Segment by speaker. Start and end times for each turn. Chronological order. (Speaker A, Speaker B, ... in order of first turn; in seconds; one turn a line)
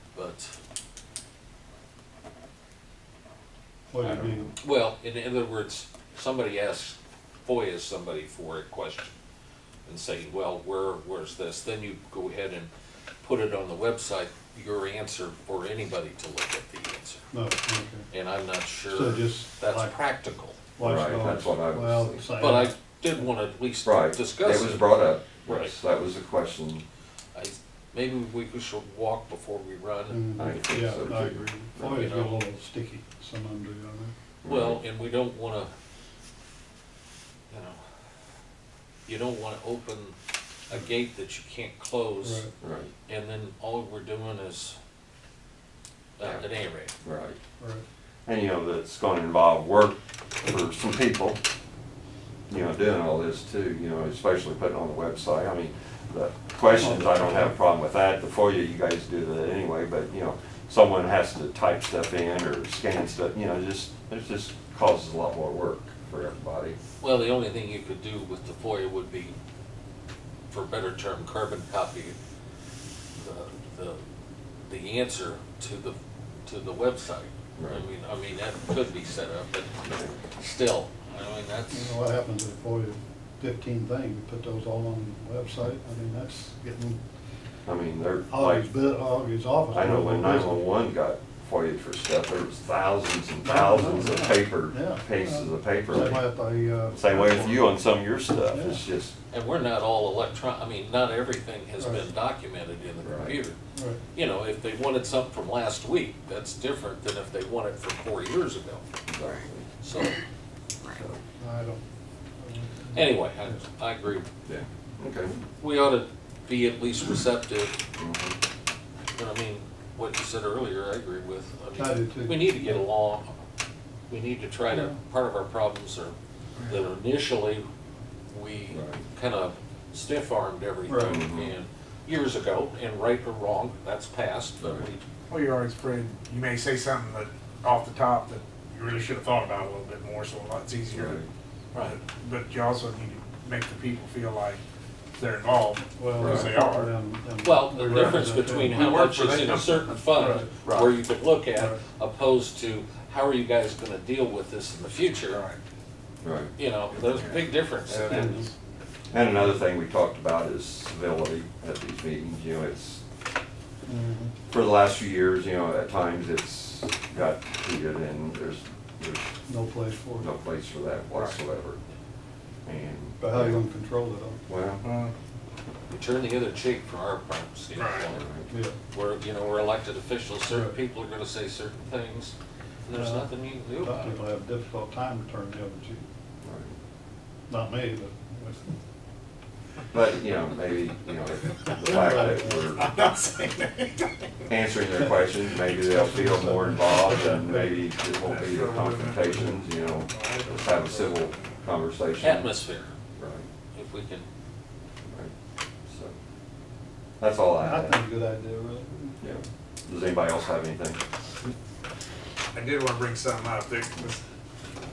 Speaker A: 0.1-0.5
Speaker B: 3.9-4.5
Speaker C: 4.0-4.5
Speaker A: 4.6-9.2
Speaker A: 9.8-12.7
Speaker A: 13.2-17.2
Speaker B: 17.3-18.1
Speaker A: 18.1-20.6
Speaker B: 18.9-19.9
Speaker B: 20.8-22.7
Speaker C: 20.8-22.2
Speaker A: 22.4-24.8
Speaker C: 23.8-26.8
Speaker A: 25.4-25.7
Speaker A: 27.3-30.2
Speaker B: 30.1-34.1
Speaker C: 30.4-32.1
Speaker A: 31.8-32.4
Speaker C: 34.4-34.8
Speaker A: 34.4-35.7
Speaker A: 37.5-37.8
Speaker A: 39.0-40.1
Speaker A: 40.7-42.5
Speaker B: 42.2-42.5
Speaker C: 42.6-42.9
Speaker A: 43.1-44.8
Speaker A: 46.2-46.9
Speaker C: 47.0-47.4
Speaker B: 47.6-47.8
Speaker C: 48.2-51.4
Speaker C: 52.5-66.8
Speaker B: 56.8-57.5
Speaker A: 67.0-69.3
Speaker A: 70.5-72.2
Speaker A: 73.1-74.0
Speaker A: 74.6-82.0
Speaker C: 77.6-77.8
Speaker C: 79.8-80.1
Speaker B: 81.7-87.0
Speaker C: 87.7-88.7
Speaker B: 88.3-90.6
Speaker C: 89.7-96.3
Speaker B: 93.4-97.7
Speaker C: 96.9-99.1
Speaker B: 98.5-98.8
Speaker A: 99.3-103.6
Speaker C: 103.0-103.4
Speaker B: 103.7-104.0
Speaker A: 104.1-108.8
Speaker C: 109.1-109.7
Speaker A: 109.8-110.2
Speaker B: 111.4-111.8
Speaker B: 112.4-113.5
Speaker A: 112.9-114.3
Speaker C: 114.5-115.4
Speaker A: 115.6-117.8
Speaker C: 118.0-118.4
Speaker A: 119.2-123.4
Speaker B: 121.7-122.8
Speaker A: 124.1-126.1
Speaker B: 124.7-125.0
Speaker D: 126.5-126.8
Speaker A: 126.7-127.6
Speaker A: 128.3-135.0
Speaker C: 128.7-129.0
Speaker B: 130.9-131.2
Speaker C: 131.1-131.5
Speaker C: 134.6-134.9
Speaker D: 135.3-141.2
Speaker C: 140.9-141.3
Speaker D: 141.7-144.6
Speaker D: 145.2-146.9
Speaker B: 145.9-148.9
Speaker C: 146.2-146.5
Speaker A: 147.4-155.4
Speaker D: 147.8-150.9
Speaker B: 150.2-150.5
Speaker D: 155.3-155.6
Speaker C: 156.2-156.5
Speaker A: 156.6-158.5
Speaker D: 156.9-158.5
Speaker B: 158.1-158.4
Speaker C: 159.1-163.0
Speaker B: 163.8-164.3
Speaker C: 164.5-169.3
Speaker B: 169.5-170.3
Speaker C: 170.2-171.8
Speaker C: 172.7-173.6
Speaker B: 173.2-174.4
Speaker C: 174.5-174.8
Speaker D: 174.8-175.1
Speaker A: 175.9-178.3
Speaker D: 177.7-178.1
Speaker C: 178.1-178.5
Speaker B: 178.5-178.8
Speaker A: 178.9-184.2
Speaker B: 180.5-180.7
Speaker B: 182.9-186.0
Speaker C: 186.4-186.7
Speaker B: 187.5-188.8
Speaker C: 189.9-193.0
Speaker B: 191.8-192.8
Speaker D: 192.8-194.0
Speaker C: 194.5-202.5
Speaker B: 195.8-197.8
Speaker D: 198.2-201.5
Speaker A: 202.2-202.9
Speaker C: 203.2-203.5
Speaker A: 203.7-204.3
Speaker C: 205.0-205.3
Speaker C: 205.9-206.1
Speaker C: 207.2-208.0
Speaker B: 207.6-209.2
Speaker C: 209.2-211.0
Speaker D: 212.5-214.2